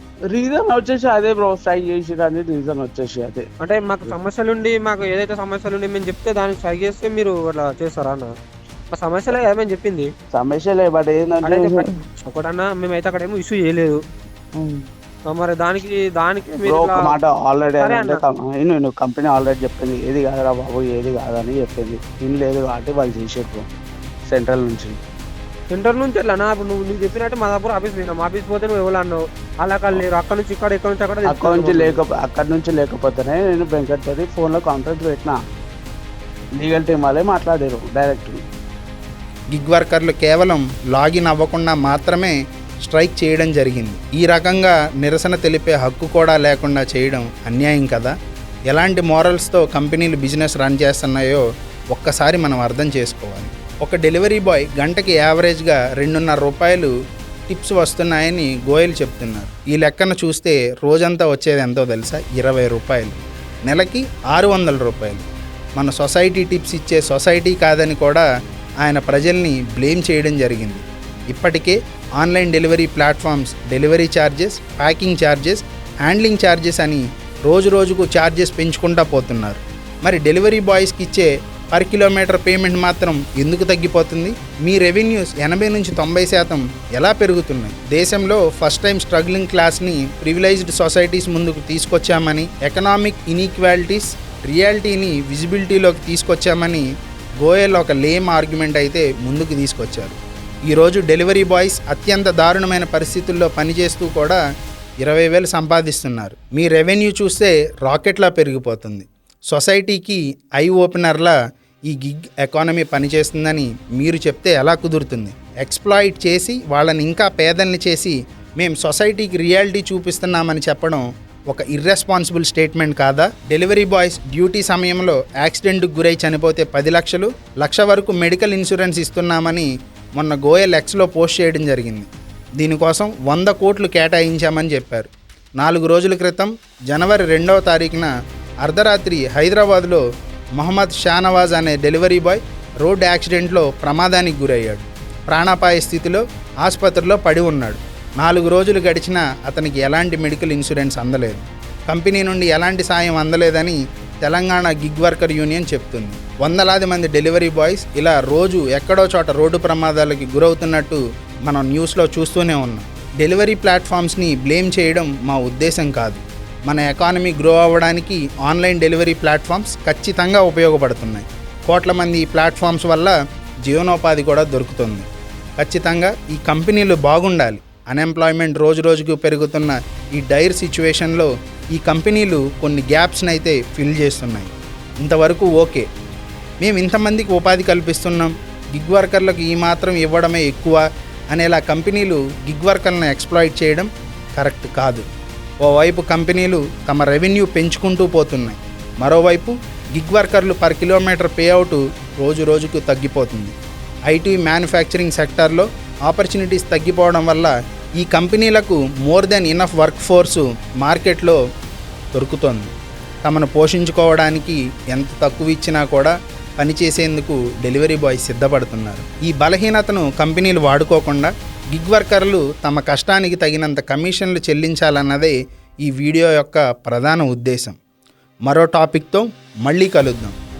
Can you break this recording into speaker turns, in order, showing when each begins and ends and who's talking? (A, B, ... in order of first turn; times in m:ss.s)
0:00.3-0:03.5 A
0:03.6-0:08.3 B
0:08.9-0:10.1 B
0:10.3-0:11.9 A
0:11.4-0:14.0 B
0:14.6-0:14.8 A
0:15.3-0:17.1 B
0:16.6-0:23.6 A
0:17.8-0:18.2 B
0:24.3-0:25.0 A
0:25.7-0:32.0 B
0:31.2-0:35.4 A
0:36.6-0:38.4 A
0:39.5-0:48.1 C
0:48.7-0:56.9 C
0:57.5-1:05.2 C
1:05.8-1:08.2 C
1:08.8-1:36.9 C
1:37.4-1:40.2 C
1:40.7-1:44.4 C
1:45.0-2:18.1 C
2:18.6-2:20.0 C
2:20.6-2:53.1 C
2:53.6-3:04.5 C
3:05.0-3:05.8 C
3:06.6-3:15.0 C
3:15.6-3:23.5 C
3:24.1-3:31.4 C
3:32.1-3:32.7 C
3:33.2-3:47.8 C
3:48.4-3:50.4 C